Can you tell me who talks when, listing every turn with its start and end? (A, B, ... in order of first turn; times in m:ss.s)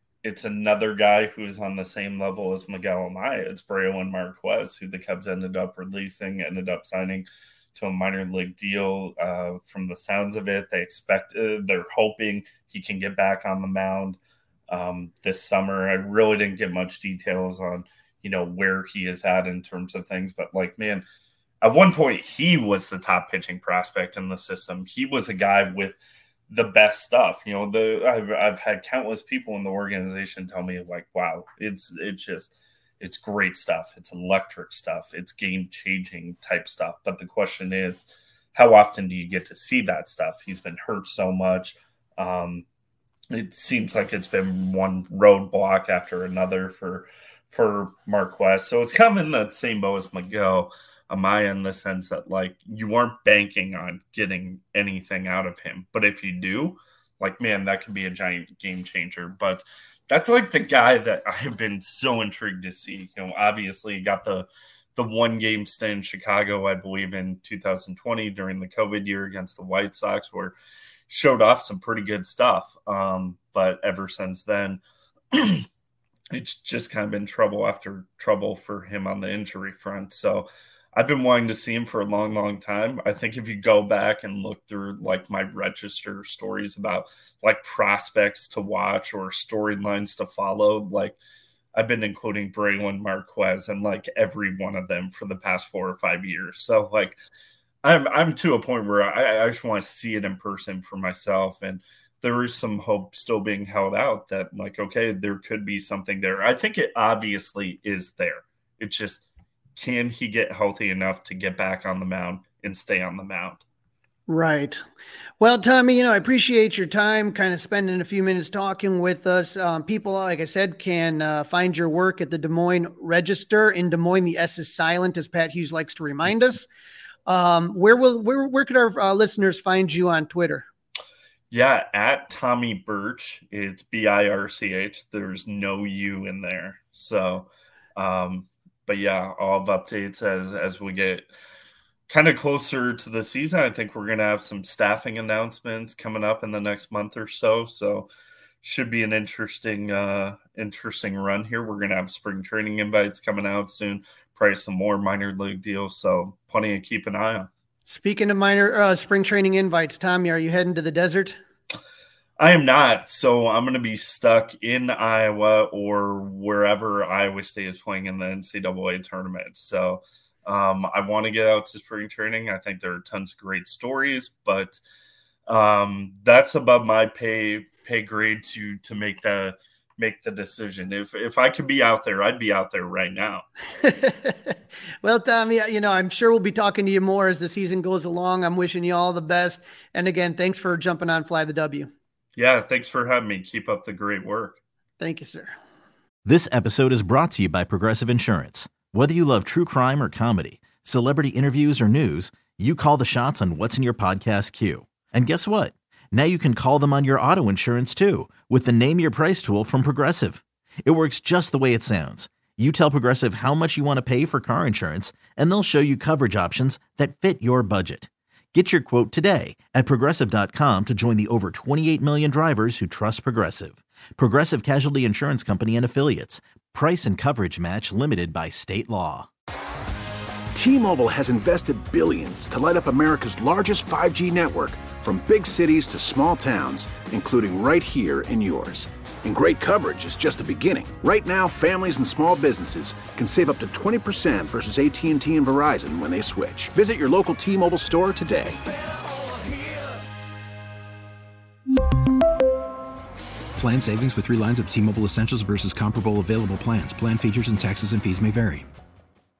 0:00.2-0:21.0 A
0:21.6-0:26.0 A
0:26.5-0:42.6 A
0:43.3-1:10.6 A
1:11.1-1:14.8 A
1:15.3-1:15.7 A
1:16.3-1:31.2 A
1:31.8-1:37.2 A
1:37.8-1:49.2 A
1:49.8-1:53.6 A
1:54.3-1:54.8 B
1:55.4-2:06.7 B
2:07.3-2:10.7 B
2:11.5-2:21.3 A
2:22.1-2:28.1 A
2:28.6-2:37.5 A
2:37.9-2:41.4 B
2:42.4-2:54.8 A
2:55.5-3:03.4 A
3:03.8-3:11.9 B
3:12.4-3:14.6 A
3:15.0-3:15.6 B
3:16.2-3:49.3 C
3:50.5-4:08.6 D
4:13.6-4:18.7 E